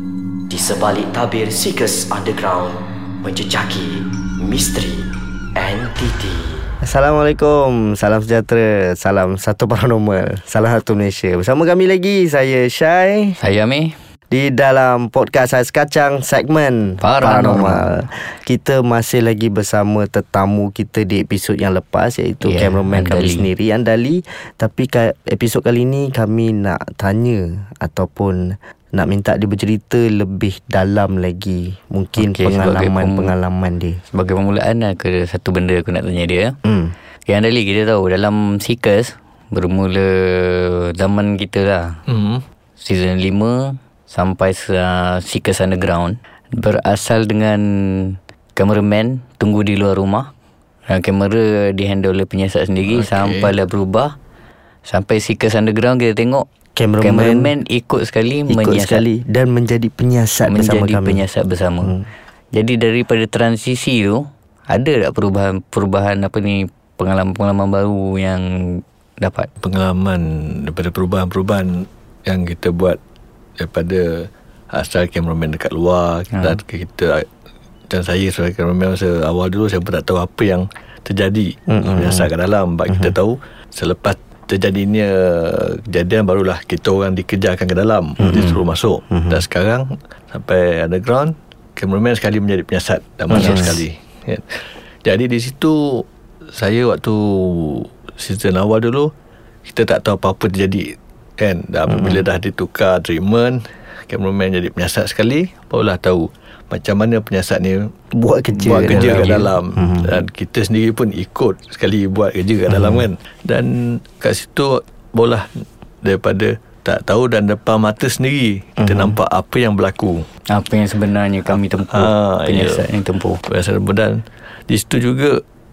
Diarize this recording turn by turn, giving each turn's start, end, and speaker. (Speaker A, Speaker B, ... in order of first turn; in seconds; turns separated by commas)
Speaker A: 0.5-6.7, Speaker B: 6.8-13.3, Speaker C: 13.4-13.9, Speaker B: 14.3-34.0, Speaker C: 17.0-18.0, Speaker C: 22.4-23.5, Speaker C: 32.2-33.3, Speaker C: 34.1-36.5, Speaker B: 36.6-36.9, Speaker C: 37.2-42.0, Speaker D: 42.1-42.4, Speaker C: 42.8-50.3, Speaker C: 50.9-54.1, Speaker D: 52.9-53.5, Speaker C: 54.9-56.5, Speaker B: 56.8-57.5, Speaker C: 57.0-59.0, Speaker B: 58.5-61.2, Speaker C: 60.4-62.0, Speaker C: 62.5-69.5, Speaker D: 69.6-73.0, Speaker D: 73.6-77.2, Speaker C: 76.3-76.6, Speaker D: 77.9-94.5, Speaker B: 81.7-82.3, Speaker B: 82.9-83.1, Speaker B: 88.2-89.4, Speaker B: 93.3-93.8, Speaker D: 95.0-99.1, Speaker D: 99.6-107.9, Speaker B: 101.9-102.2, Speaker B: 108.1-110.1, Speaker C: 108.7-109.5, Speaker D: 108.7-115.5, Speaker B: 112.7-113.0, Speaker D: 116.0-120.2, Speaker B: 118.8-119.2, Speaker C: 120.5-123.4, Speaker D: 121.5-122.9, Speaker D: 123.5-125.4